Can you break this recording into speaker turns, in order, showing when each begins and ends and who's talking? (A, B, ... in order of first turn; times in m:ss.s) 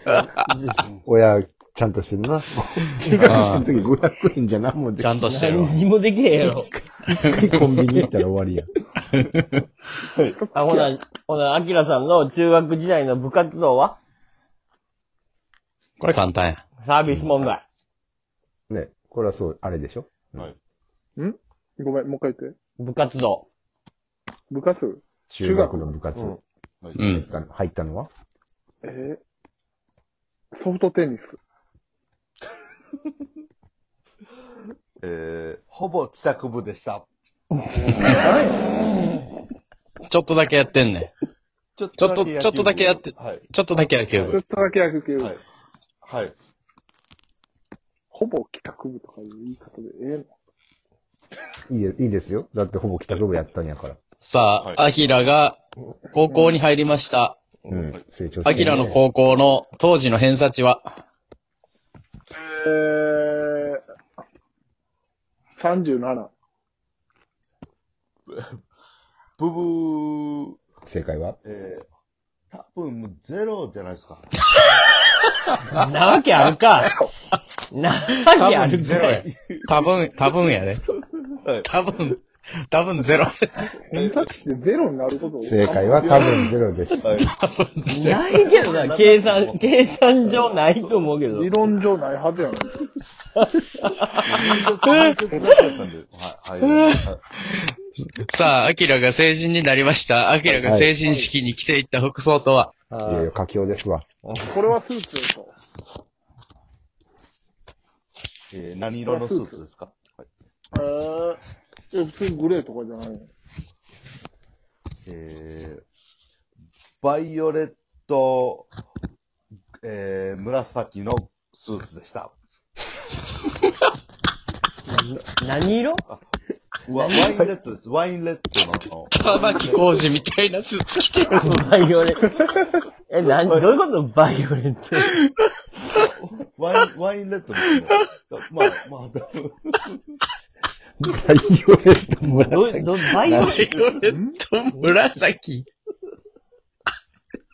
0:00.5-0:00.9 A
0:01.0-0:05.2 B
0:03.1-0:03.4 C
0:03.2-0:03.7 D
0:05.0-0:05.8 D
0:05.2-0:06.7 A
0:07.1-0:08.7 B
0:07.1-0:07.6 D
0:09.1-0:09.6 D
0:10.0-0:10.4 E
0:10.4-0:10.9 C
0:10.5-0:14.0 A
0:16.0-0:16.6 D
0:16.8-0:17.6 A
0:18.7-0:20.4 B
0:21.2-0:22.5 C
0:22.8-0:23.4 A
0:24.5-0:25.8 C
0:25.3-0:26.4 B
0:27.0-0:27.2 D
0:27.0-0:28.1 B
0:28.8-0:29.2 C
0:30.5-0:31.4 C
0:35.0-0:37.1 E
0:38.0-0:38.6 C
0:40.1-0:41.1 D
0:41.8-0:43.5 E
0:42.0-0:44.4 D
0:44.1-0:44.4 E
0:44.3-0:45.3 C
0:46.0-0:46.3 E
0:48.1-0:50.3 C
0:51.7-0:54.0 B
0:54.2-0:55.6 D
0:56.1-0:57.4 D
0:56.3-0:56.6 C
0:57.7-0:59.0 B
0:58.4-1:00.8 D
1:02.4-1:03.8 C
1:05.6-1:06.3 C
1:08.3-1:08.6 E
1:09.4-1:10.6 E
1:10.8-1:11.4 B
1:11.4-1:11.9 E
1:12.5-1:14.4 E
1:15.7-1:16.9 A
1:17.7-1:19.2 A
1:18.3-1:20.8 D
1:18.8-1:22.0 E
1:21.6-1:23.7 D
1:23.9-1:26.2 C
1:23.9-1:24.3 E
1:25.4-1:27.0 B
1:26.0-1:26.4 E
1:27.0-1:27.3 E
1:27.2-1:28.2 D
1:27.9-1:31.7 A
1:28.0-1:31.2 E
1:31.3-1:32.7 C
1:33.4-1:35.1 A
1:34.1-1:37.2 E
1:38.2-1:42.7 D
1:40.6-1:40.9 B
1:42.9-1:43.3 A
1:43.0-1:44.0 B
1:44.2-1:44.6 A
1:44.5-1:45.5 C
1:48.5-1:50.3 E
1:49.1-1:49.6 C
1:50.7-1:51.4 C
1:51.9-1:53.3 C
1:55.0-1:55.8 E
1:57.0-1:58.7 E
1:59.8-2:02.4 E
2:04.9-2:06.0 A
2:06.8-2:10.1 E
2:07.0-2:07.5 A
2:09.1-2:11.6 D
2:11.4-2:12.5 A
2:13.1-2:15.1 A
2:15.0-2:15.3 D
2:15.8-2:20.2 E
2:21.0-2:23.6 B
2:22.3-2:23.7 A
2:23.2-2:25.7 D
2:24.0-2:24.4 C